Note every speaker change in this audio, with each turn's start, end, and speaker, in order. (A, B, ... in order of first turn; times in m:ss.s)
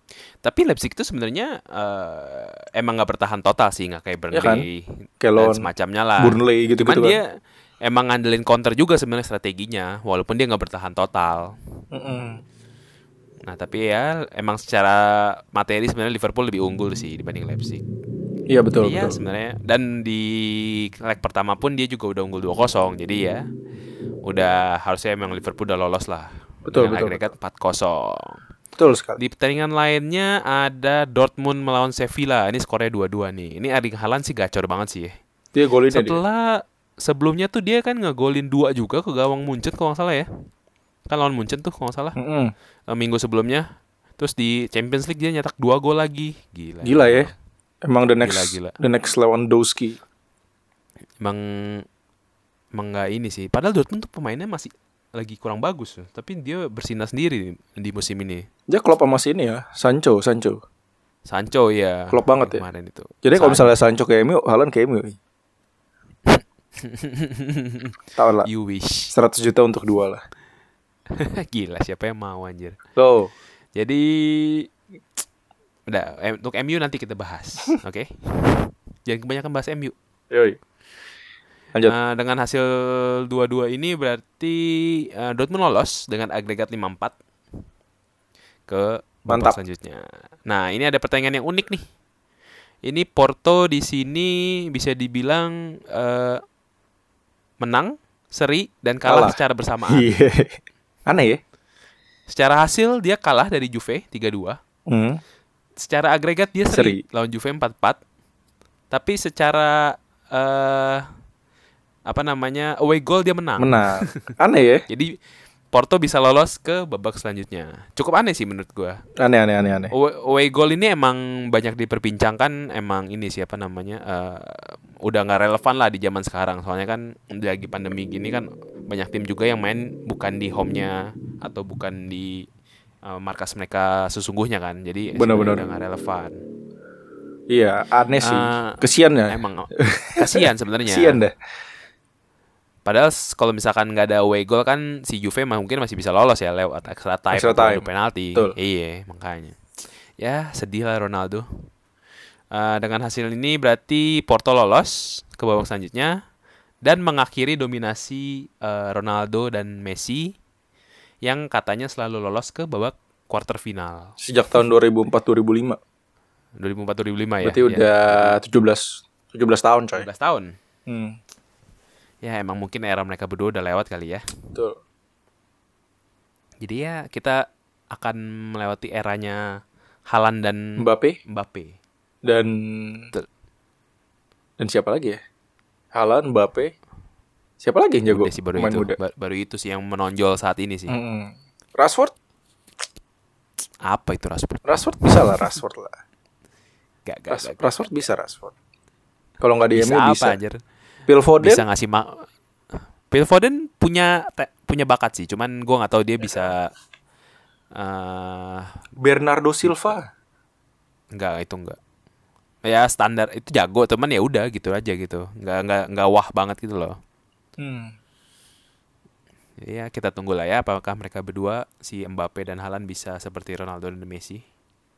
0:00.4-0:07.3 A
0:04.3-0:04.7 B
0:05.2-0:05.7 B
0:06.2-0:07.2 B
0:07.8-0:11.6 A
0:11.9-0:12.4 B
0:13.4-0:17.8 A
0:18.5-0:19.2 B
0:18.8-0:23.4 A
0:24.2-0:28.4 A
0:26.7-0:27.3 B
0:28.8-0:29.2 B
0:29.2-0:35.1 A
0:35.5-0:36.2 B
0:35.9-0:40.3 A
0:41.1-0:42.2 A
0:42.2-0:42.5 B
0:42.9-0:43.6 A
0:44.2-0:47.3 A
0:46.8-0:47.3 B
0:47.8-0:50.0 B
0:48.2-0:48.8 A
0:51.2-0:51.8 A
0:52.7-0:58.5 A
0:58.7-1:00.6 B
1:01.3-1:03.8 A
1:02.1-1:02.6 B
1:03.2-1:05.2 B
1:06.3-1:09.1 A
1:08.2-1:08.5 B
1:09.1-1:10.2 B
1:11.1-1:12.8 A
1:13.0-1:13.3 B
1:13.8-1:14.7 A
1:15.9-1:19.9 A
1:20.3-1:20.6 B
1:21.8-1:27.1 A
1:28.7-1:31.8 A
1:29.3-1:29.6 B
1:32.8-1:36.4 A
1:37.6-1:40.1 A
1:39.0-1:39.4 B
1:39.9-1:41.4 B
1:42.3-1:44.6 A
1:44.9-1:45.2 B
1:45.8-1:48.0 A
1:46.7-1:47.0 B
1:48.9-1:51.0 A
1:52.0-1:54.3 A
1:53.6-1:54.8 B
1:54.9-1:55.1 A
1:55.7-1:59.0 A
1:59.2-1:59.9 B
1:59.9-2:12.5 A
2:13.0-2:16.4 A
2:15.2-2:15.6 B
2:17.5-2:21.3 B
2:18.2-2:21.2 A
2:22.8-2:29.6 A
2:27.3-2:28.5 B
2:30.2-2:31.4 A
2:32.5-2:36.2 A
2:36.8-2:40.3 A
2:41.2-2:44.1 A
2:44.2-2:45.8 B
2:46.6-2:48.4 A
2:47.4-2:50.1 B
2:49.9-2:50.6 A
2:50.9-2:51.2 B
2:52.2-2:54.2 A
2:56.6-2:59.4 A
3:00.1-3:01.8 A
3:00.8-3:01.2 B
3:02.2-3:03.1 B
3:04.6-3:05.2 B
3:05.9-3:06.7 B
3:07.6-3:09.0 B
3:08.1-3:11.0 A
3:10.9-3:12.1 B
3:13.8-3:15.6 A
3:14.7-3:15.9 B
3:17.0-3:17.6 A
3:17.3-3:18.5 B
3:19.4-3:20.4 B
3:19.7-3:20.6 A
3:21.1-3:21.6 B
3:21.4-3:22.3 A
3:23.1-3:26.7 A
3:27.7-3:28.7 A
3:29.0-3:30.1 B
3:29.6-3:29.9 A
3:31.1-3:31.8 A
3:32.6-3:37.0 A
3:37.6-3:37.9 B
3:39.6-3:44.4 A